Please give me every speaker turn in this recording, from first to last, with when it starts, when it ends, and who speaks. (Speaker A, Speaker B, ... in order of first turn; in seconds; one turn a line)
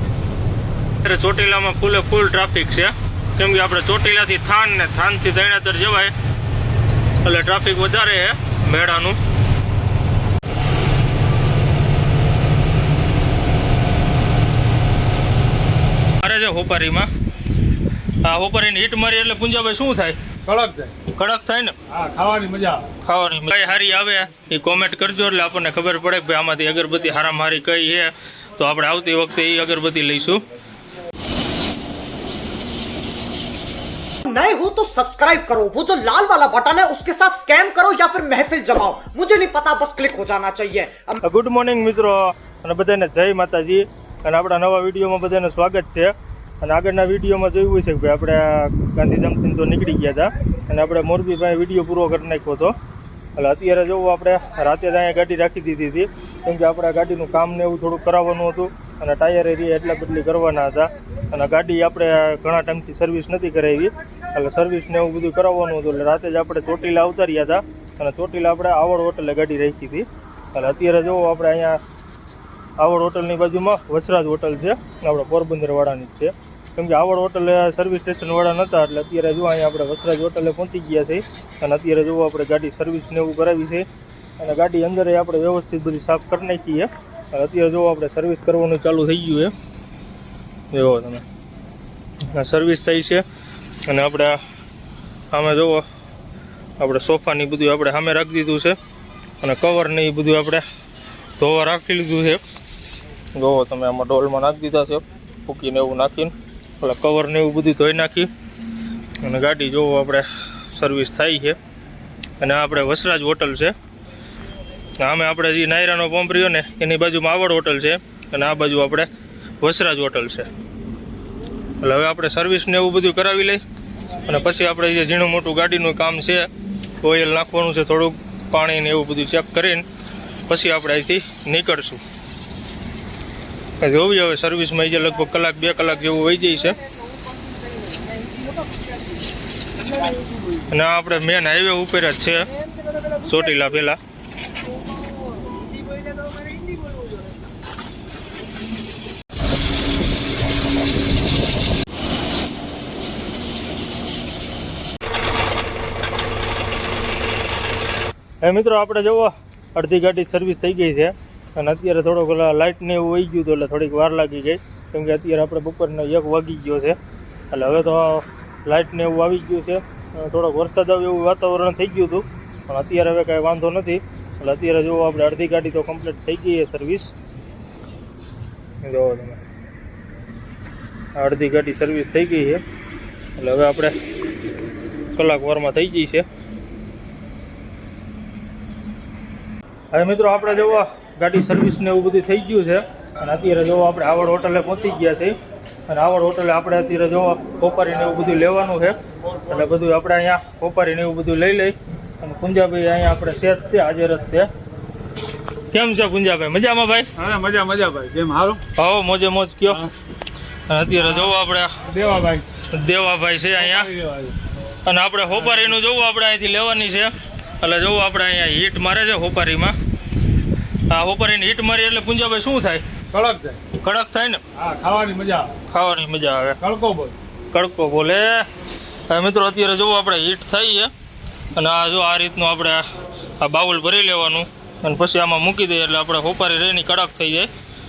Speaker A: 1.0-6.1
Speaker A: 7.2-9.2
Speaker A: 16.2-17.1
Speaker A: 18.2-20.2
Speaker B: 20.5-20.9
Speaker A: 21.1-21.8
Speaker B: 21.9-22.9
Speaker A: 23.0-30.4
Speaker C: 34.3-41.2
Speaker A: 41.2-52.8
Speaker A: 53.4-71.8
Speaker A: 72.8-83.9
Speaker A: 84.4-89.5
Speaker A: 90.7-91.2
Speaker A: 92.3-93.2
Speaker A: 93.9-94.4
Speaker A: 95.3-95.8
Speaker A: 96.8-98.8
Speaker A: 99.4-100.7
Speaker A: 101.4-102.4
Speaker A: 103.3-108.3
Speaker A: 109.2-111.6
Speaker A: 112.4-113.7
Speaker A: 115.0-119.1
Speaker A: 119.6-120.5
Speaker A: 121.8-123.6
Speaker A: 124.2-126.5
Speaker A: 127.0-129.9
Speaker A: 130.5-132.0
Speaker A: 133.8-136.8
Speaker A: 140.7-144.0
Speaker A: 158.4-167.0
Speaker A: 167.5-177.1
Speaker A: 178.8-179.4
Speaker A: 181.2-182.6
Speaker A: 183.4-183.9
Speaker A: 185.1-186.3
Speaker A: 189.9-195.4
Speaker A: 195.9-204.5
Speaker A: 205.7-207.1
Speaker B: 207.2-208.7
Speaker A: 208.8-209.8
Speaker B: 209.7-209.9
Speaker A: 210.7-211.8
Speaker B: 211.9-212.5
Speaker A: 212.6-213.9
Speaker B: 213.6-214.3
Speaker A: 214.8-219.8
Speaker A: 220.9-222.9
Speaker B: 223.1-223.6
Speaker A: 223.7-224.4
Speaker B: 224.5-225.5
Speaker A: 225.6-226.6
Speaker B: 226.6-227.2
Speaker A: 227.5-228.5
Speaker A: 229.1-230.9
Speaker A: 231.6-232.8
Speaker A: 233.4-237.5